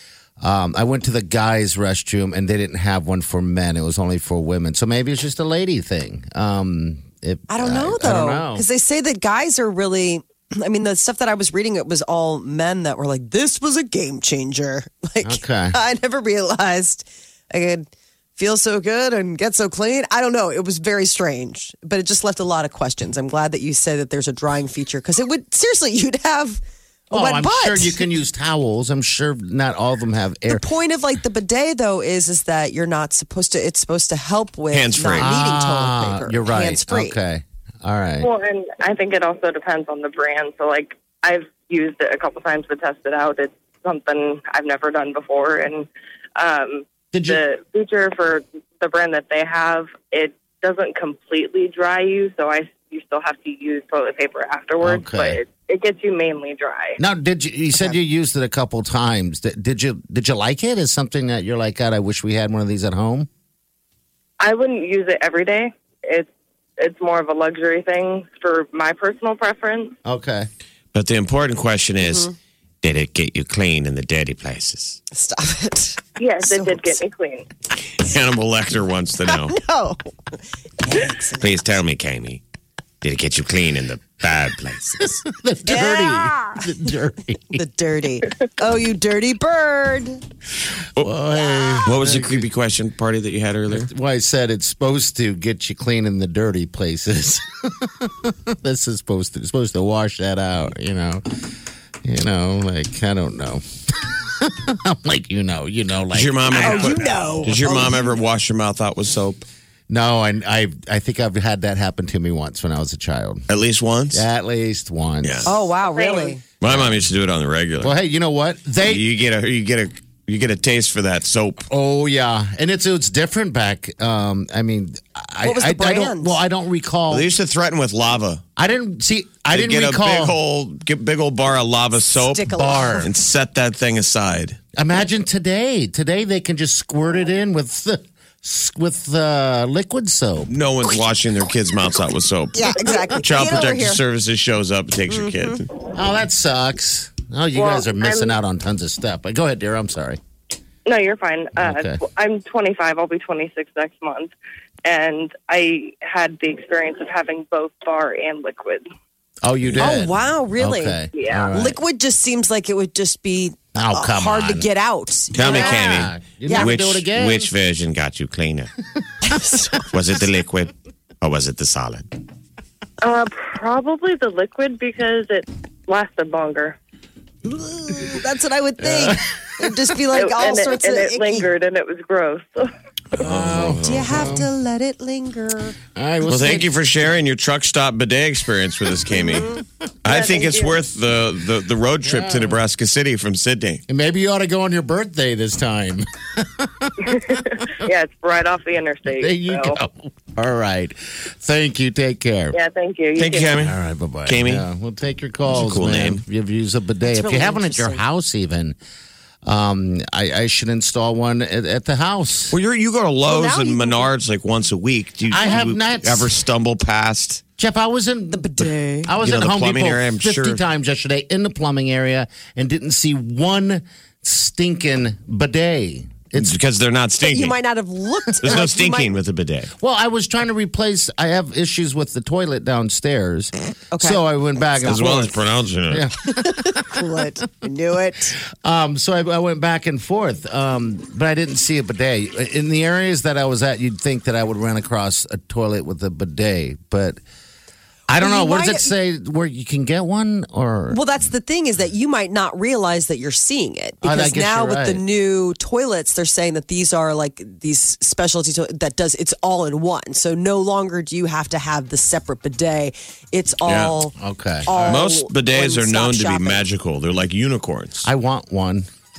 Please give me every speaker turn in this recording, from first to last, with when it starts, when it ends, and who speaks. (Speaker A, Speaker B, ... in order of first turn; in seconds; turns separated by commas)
Speaker A: 0.4-8.6, Speaker B: 7.5-28.0, Speaker A: 15.2-15.8, Speaker A: 27.1-30.7, Speaker B: 30.5-37.2, Speaker C: 34.7-35.3, Speaker A: 35.1-38.3, Speaker D: 38.2-57.0, Speaker A: 47.1-47.4, Speaker A: 54.8-55.4, Speaker A: 57.0-63.3, Speaker D: 64.4-70.0, Speaker A: 70.0-70.5, Speaker C: 70.9-75.0, Speaker B: 72.0-72.3, Speaker B: 75.1-77.0, Speaker D: 76.2-77.5, Speaker C: 78.0-79.6, Speaker B: 79.2-81.6, Speaker C: 81.4-82.4, Speaker C: 83.0-85.2, Speaker A: 85.0-87.6, Speaker B: 85.7-86.7, Speaker B: 87.5-90.2, Speaker A: 91.0-92.5, Speaker B: 91.4-91.7, Speaker C: 91.8-93.9, Speaker A: 93.7-101.2, Speaker A: 102.0-103.6, Speaker A: 104.4-107.1, Speaker C: 106.1-109.5, Speaker B: 106.5-108.2, Speaker A: 109.9-113.4, Speaker C: 113.5-114.2, Speaker A: 114.1-115.5, Speaker C: 115.2-115.5, Speaker B: 115.4-116.4, Speaker D: 115.8-116.4, Speaker C: 116.6-117.9, Speaker A: 116.6-117.0, Speaker A: 117.8-119.1, Speaker C: 118.8-121.6, Speaker A: 121.7-127.3, Speaker B: 125.4-126.4, Speaker C: 127.1-128.4, Speaker A: 128.6-130.4, Speaker C: 129.5-134.6, Speaker B: 132.1-133.1, Speaker A: 132.5-133.1, Speaker A: 134.8-140.5, Speaker C: 140.5-145.7, Speaker B: 142.5-144.0, Speaker B: 145.1-145.6, Speaker A: 145.9-150.2, Speaker D: 147.5-148.4, Speaker D: 150.8-154.3, Speaker A: 151.6-152.0, Speaker D: 154.8-158.8, Speaker A: 159.4-161.8, Speaker B: 159.8-166.7, Speaker D: 161.1-161.5, Speaker A: 163.7-164.7, Speaker C: 165.3-168.7, Speaker A: 165.4-167.5, Speaker B: 169.2-169.9, Speaker C: 169.9-172.1, Speaker D: 173.0-176.8, Speaker B: 177.4-181.5, Speaker A: 178.8-179.2, Speaker D: 180.1-182.7, Speaker C: 183.2-184.4, Speaker A: 183.2-184.5, Speaker B: 183.8-185.8, Speaker A: 185.9-186.8, Speaker C: 186.3-193.8, Speaker B: 189.1-189.6, Speaker D: 190.1-190.8, Speaker A: 192.0-192.6, Speaker A: 193.9-197.7, Speaker D: 197.8-199.8, Speaker A: 199.1-202.6, Speaker D: 202.5-203.6, Speaker C: 203.2-203.7, Speaker A: 203.6-208.8, Speaker C: 204.3-204.7, Speaker C: 205.5-206.2, Speaker B: 207.0-208.0, Speaker A: 209.4-212.6, Speaker C: 212.5-217.4, Speaker B: 213.3-214.1, Speaker A: 215.3-216.3, Speaker A: 217.6-226.6, Speaker B: 218.3-219.1, Speaker C: 219.2-220.6, Speaker C: 226.3-227.6, Speaker B: 227.2-229.2, Speaker C: 228.4-229.7, Speaker A: 229.8-235.3, Speaker B: 233.9-235.3, Speaker C: 234.8-236.1, Speaker A: 235.9-236.9, Speaker B: 236.2-238.4, Speaker A: 238.6-247.2, Speaker A: 248.1-251.0, Speaker B: 248.1-248.9, Speaker B: 250.9-266.6, Speaker A: 254.0-255.0, Speaker C: 263.6-263.9, Speaker A: 264.2-265.0, Speaker C: 264.9-268.1, Speaker A: 268.0-268.9